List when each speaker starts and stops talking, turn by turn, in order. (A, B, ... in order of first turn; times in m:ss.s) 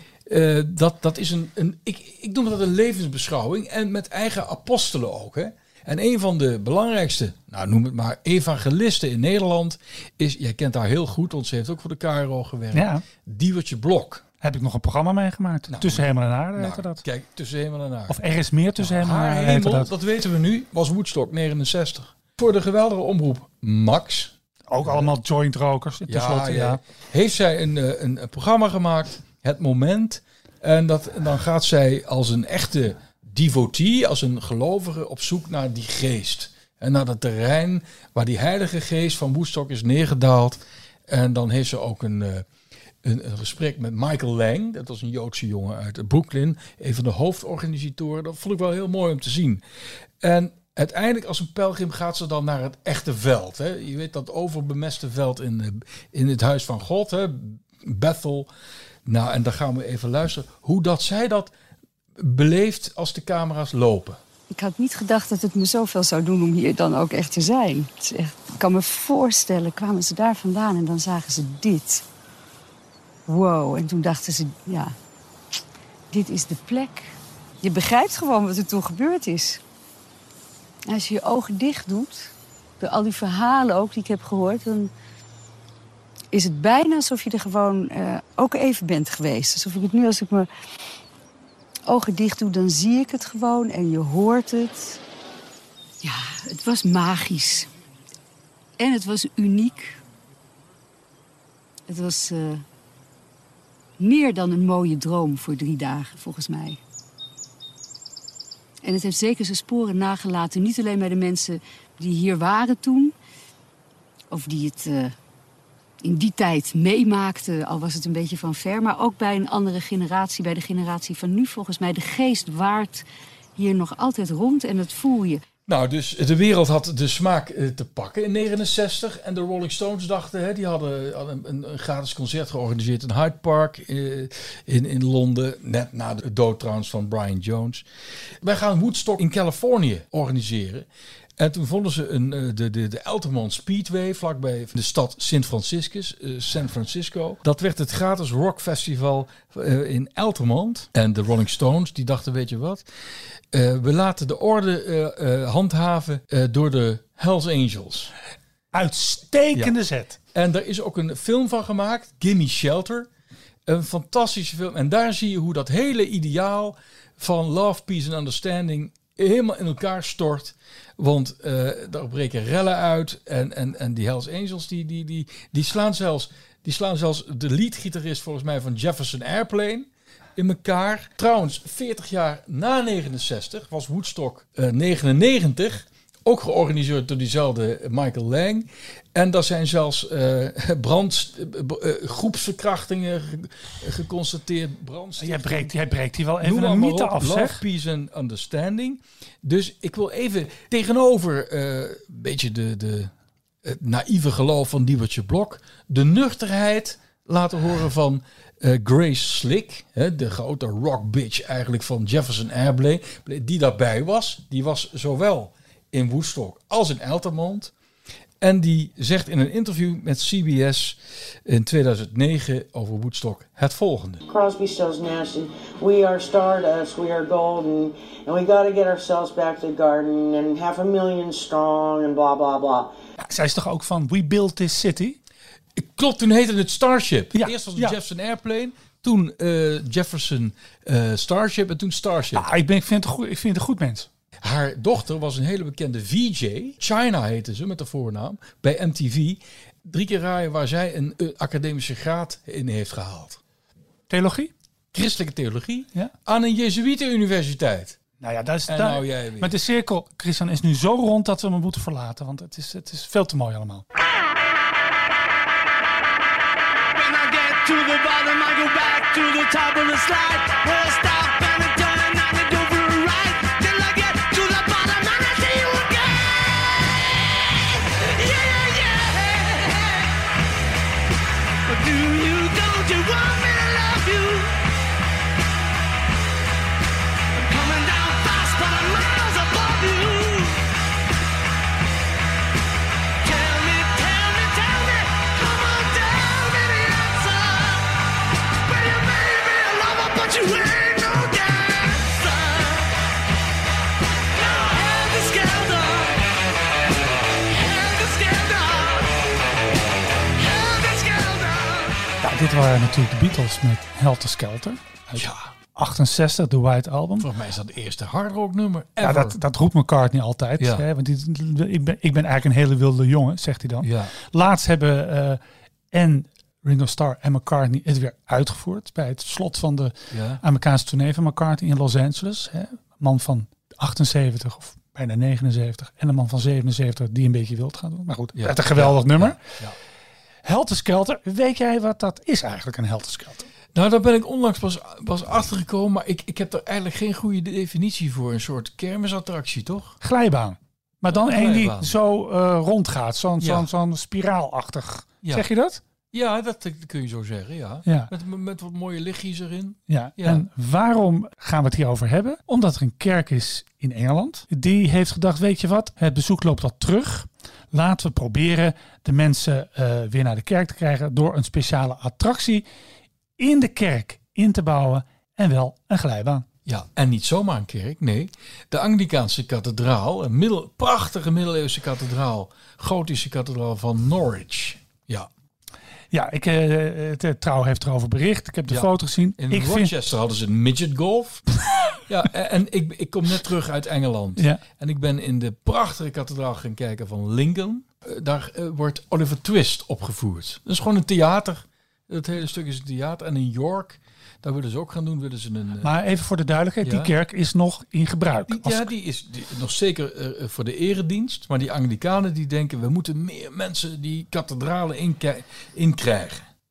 0:00.2-0:14.2 A
0:12.7-0:13.0 B
0:14.4-0:17.0 B
0:15.7-0:18.2 A
0:18.1-0:19.9 B
0:18.8-0:25.1 A
0:24.7-0:26.8 B
0:26.1-0:42.5 A
0:43.0-0:49.6 A
0:50.2-0:58.5 A
0:59.0-1:01.5 A
1:02.2-1:04.2 A
1:04.5-1:12.0 C
1:13.3-1:14.9 C
1:16.1-1:19.6 C
1:20.9-1:24.9 C
1:26.3-1:30.5 C
1:31.9-1:35.0 C
1:36.0-1:37.7 C
1:38.8-1:40.0 C
1:41.9-1:42.6 C
1:44.0-1:46.8 C
1:48.8-1:53.1 C
1:54.3-1:55.2 C
1:56.0-2:03.0 C
2:03.6-2:05.4 C
2:05.7-2:17.8 A
2:18.4-2:32.8 A
2:33.5-2:38.1 A
2:38.7-2:40.2 B
2:40.3-2:43.1 A
2:43.6-3:15.7 A
3:15.2-3:17.6 B
3:16.4-3:23.1 A
3:23.6-3:37.7 A
3:38.4-3:44.2 A
3:44.3-3:52.9 D
3:53.2-3:55.2 B
3:55.8-4:02.5 A
3:57.3-3:58.0 B
4:02.3-4:04.1 B
4:04.4-4:13.4 A
4:14.1-4:14.5 B
4:14.9-4:18.0 A
4:18.2-4:23.8 B
4:18.6-4:19.5 A
4:26.9-4:32.9 E
4:30.0-4:30.5 D
4:31.6-4:31.9 D
4:32.5-4:36.8 D
4:33.5-4:34.4 E
4:37.9-4:40.1 D
4:41.7-4:44.6 D
4:47.3-4:50.6 D
4:53.2-4:57.9 D
4:58.6-5:02.9 D
5:04.4-5:06.3 D
5:07.4-5:09.2 D
5:10.3-5:12.0 D
5:12.2-5:17.3 B
5:15.1-5:15.5 A
5:17.2-5:19.4 A
5:19.0-5:25.4 B
5:20.6-5:20.8 A
5:23.8-5:24.1 A
5:25.9-5:39.4 B
5:30.1-5:30.4 A
5:38.3-5:39.8 A
5:40.4-5:43.5 B
5:43.7-5:50.0 A
5:50.0-5:55.8 B
5:51.1-5:51.9 A
5:53.4-5:53.7 A
5:56.1-6:00.4 A
5:57.8-5:58.1 B
5:59.9-6:12.6 B
6:13.4-6:16.4 B
6:16.6-6:25.3 A
6:26.1-6:29.9 B
6:28.7-6:31.4 A
6:32.1-6:45.9 A
6:34.4-6:34.6 B
6:45.8-6:48.9 B
6:46.8-6:47.1 A
6:48.5-6:56.4 A